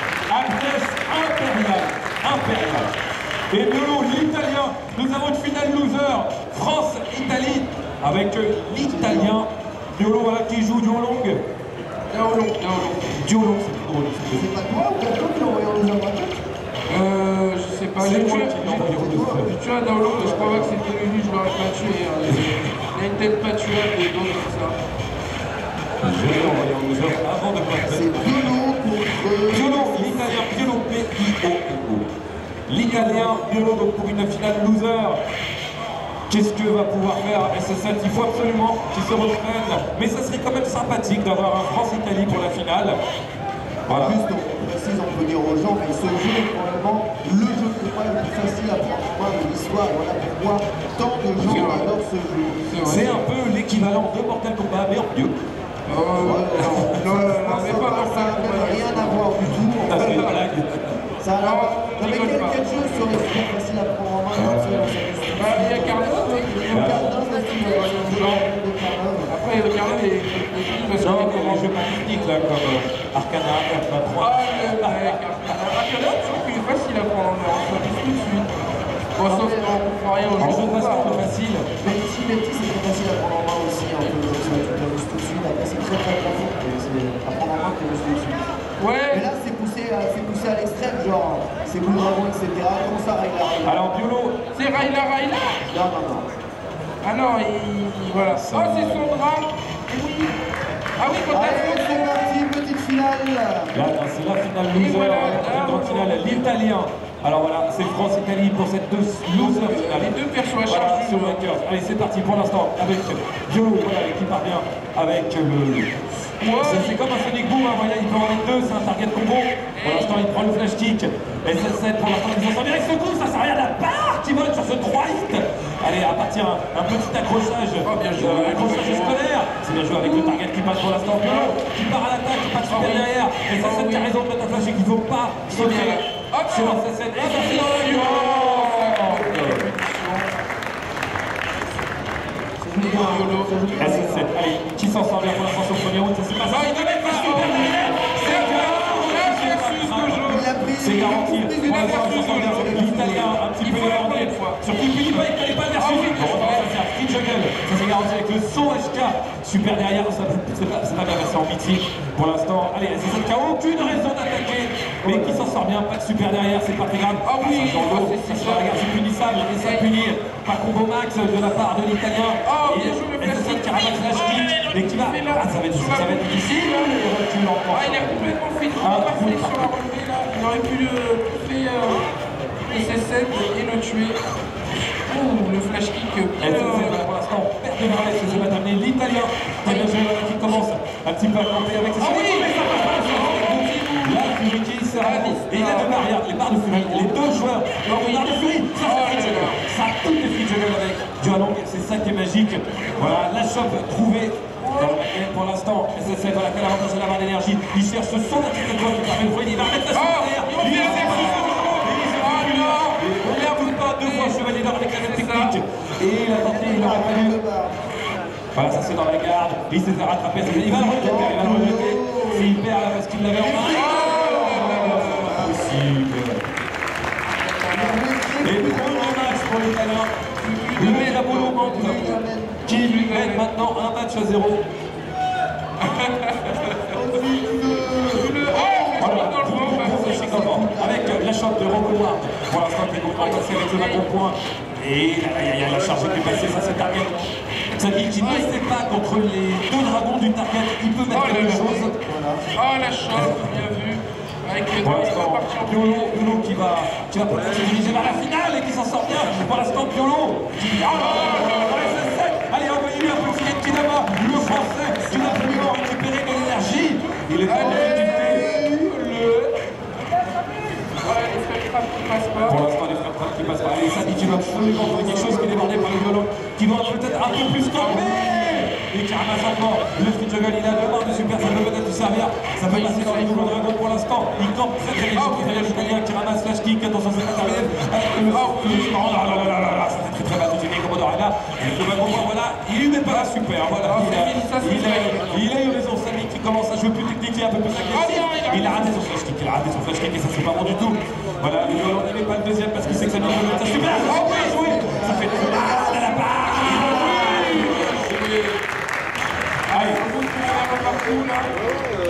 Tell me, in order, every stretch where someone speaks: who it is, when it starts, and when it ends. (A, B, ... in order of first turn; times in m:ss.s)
0:00.3-0:03.0 A
0:03.5-0:11.4 A
0:08.8-0:09.3 B
0:12.1-0:13.2 C
0:13.2-0:14.5 A
0:14.3-0:16.4 B
0:16.9-0:24.8 C
0:18.0-0:19.5 A
0:18.8-0:20.8 B
0:26.0-0:28.5 A
0:26.2-0:27.2 C
0:27.9-0:30.2 B
0:29.5-0:32.1 A
0:32.7-0:35.2 A
0:32.8-0:33.3 C
0:36.3-0:43.0 A
0:43.8-0:44.2 A
0:43.9-0:52.7 B
0:51.4-0:51.9 C
0:51.5-0:51.7 A
0:52.7-0:53.2 C
0:52.8-0:55.4 A
0:55.9-0:59.3 C
0:56.1-1:00.5 B
0:56.7-0:56.9 A
0:59.8-1:01.0 A
1:00.0-1:00.4 C
1:01.2-1:09.3 B
1:01.4-1:03.1 C
1:04.3-1:05.0 A
1:05.3-1:08.4 C
1:06.7-1:07.2 A
1:09.3-1:11.7 C
1:11.0-1:15.2 A
1:14.2-1:18.5 C
1:19.2-1:21.3 C
1:19.3-1:19.8 B
1:20.4-1:21.8 A
1:21.8-1:28.5 B
1:28.8-1:29.2 C
1:29.1-1:33.8 B
1:33.6-1:34.4 A
1:34.5-1:35.6 C
1:35.6-1:36.3 B
1:37.0-1:40.4 C
1:38.2-1:39.0 A
1:41.0-1:42.2 C
1:41.3-1:43.8 B
1:43.7-1:50.1 A
1:44.7-1:46.4 C
1:49.3-1:51.5 C
1:50.6-1:55.9 A
1:56.4-1:57.0 C
1:56.4-2:19.6 A
1:59.7-2:00.3 C
2:07.8-2:09.2 C
2:09.9-2:11.5 C
2:12.7-2:14.1 C
2:15.5-2:20.3 C
2:22.6-2:24.3 B
2:22.7-2:23.6 C
2:23.8-2:59.7 A
2:26.5-2:30.5 C
2:30.2-2:33.4 B
2:31.6-2:32.9 C
2:33.6-2:34.6 C
2:35.7-2:36.7 C
2:45.0-2:45.5 B
2:47.2-2:49.9 C
2:52.4-2:57.0 C
2:57.7-3:02.1 C
3:02.7-3:04.2 C
3:05.0-3:07.1 C
3:06.4-3:37.4 A
3:07.8-3:08.5 C
3:09.6-3:09.9 C
3:12.0-3:14.4 C
3:14.9-3:16.1 C
3:16.7-3:19.6 C
3:24.6-3:25.0 C
3:29.7-3:35.6 C
3:36.3-3:37.9 B
3:38.5-3:46.4 A
3:40.4-3:42.6 B
3:43.3-3:45.9 B
3:43.6-3:45.5 C
3:47.6-3:48.0 C
3:47.6-3:49.4 B
3:48.4-3:50.1 A
3:50.4-3:53.4 C
3:50.7-3:54.6 A
3:51.7-3:52.7 B
3:55.8-3:57.0 C
3:56.9-4:01.2 B
3:58.1-4:00.5 C
3:59.0-4:11.9 A
4:03.1-4:04.0 C
4:08.2-4:08.5 C
4:11.1-4:11.8 C
4:11.2-4:12.4 B
4:12.5-4:16.2 C
4:13.1-4:13.5 A
4:14.8-4:28.4 A
4:20.9-4:22.0 B
4:20.9-4:22.0 C
4:24.2-4:25.9 B
4:27.4-4:29.5 C
4:27.5-4:28.9 B
4:31.0-4:32.6 C
4:32.4-5:08.0 A
4:34.0-4:36.1 B
4:37.7-4:38.7 C
4:42.6-4:43.6 C
4:45.1-4:46.0 C
4:48.3-4:49.4 C
4:53.1-4:55.4 C
4:57.8-4:59.0 C
5:02.8-5:07.7 B
5:04.0-5:04.8 C
5:06.6-5:08.6 C
5:09.7-5:10.0 A
5:09.7-5:11.5 C